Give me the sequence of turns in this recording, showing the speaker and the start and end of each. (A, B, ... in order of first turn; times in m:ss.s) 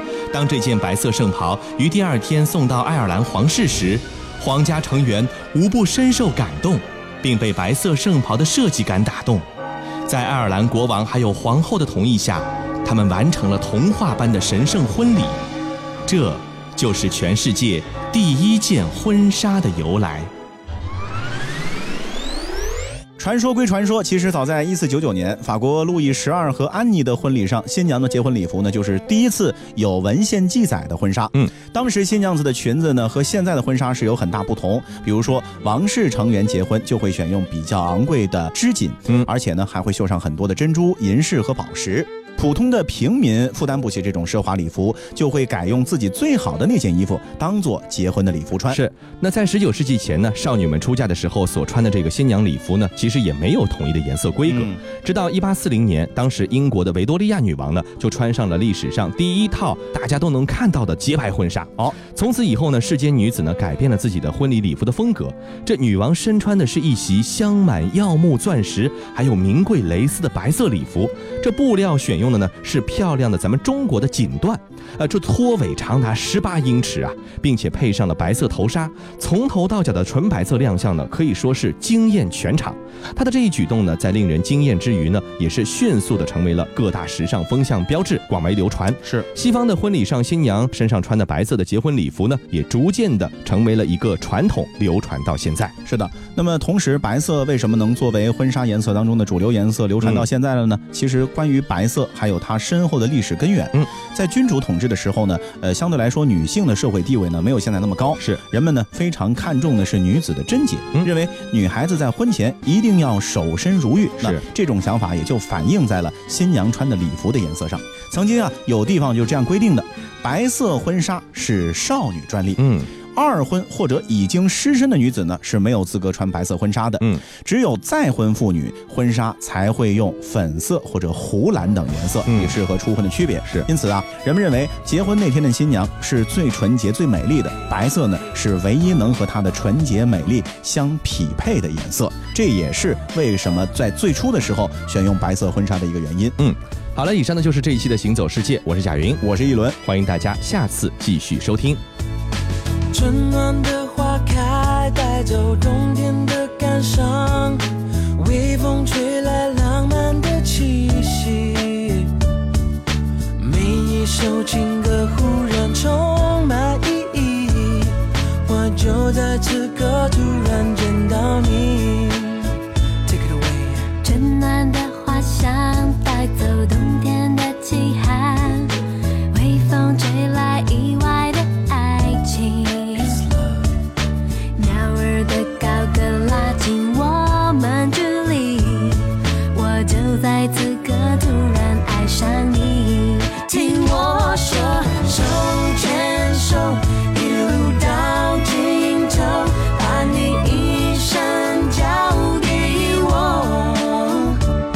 0:00.3-0:09.5 A
0:10.1-0:15.4 A
0:16.1-0:20.3 A
0:23.2-0:48.8 B
0:48.7-1:35.7 A
0:54.5-0:54.8 B
1:35.8-2:26.4 B
1:54.2-1:54.4 A
2:02.6-2:02.9 A
2:12.3-2:12.6 A
2:26.4-2:29.2 A
2:29.2-2:29.8 B
2:29.8-2:31.8 A
2:32.9-2:42.1 C
2:43.4-2:52.6 C
2:53.1-2:53.9 C
2:54.0-2:58.7 D
2:59.3-3:03.2 D
3:03.0-3:03.7 C
3:04.6-3:15.0 D
3:14.8-3:24.4 C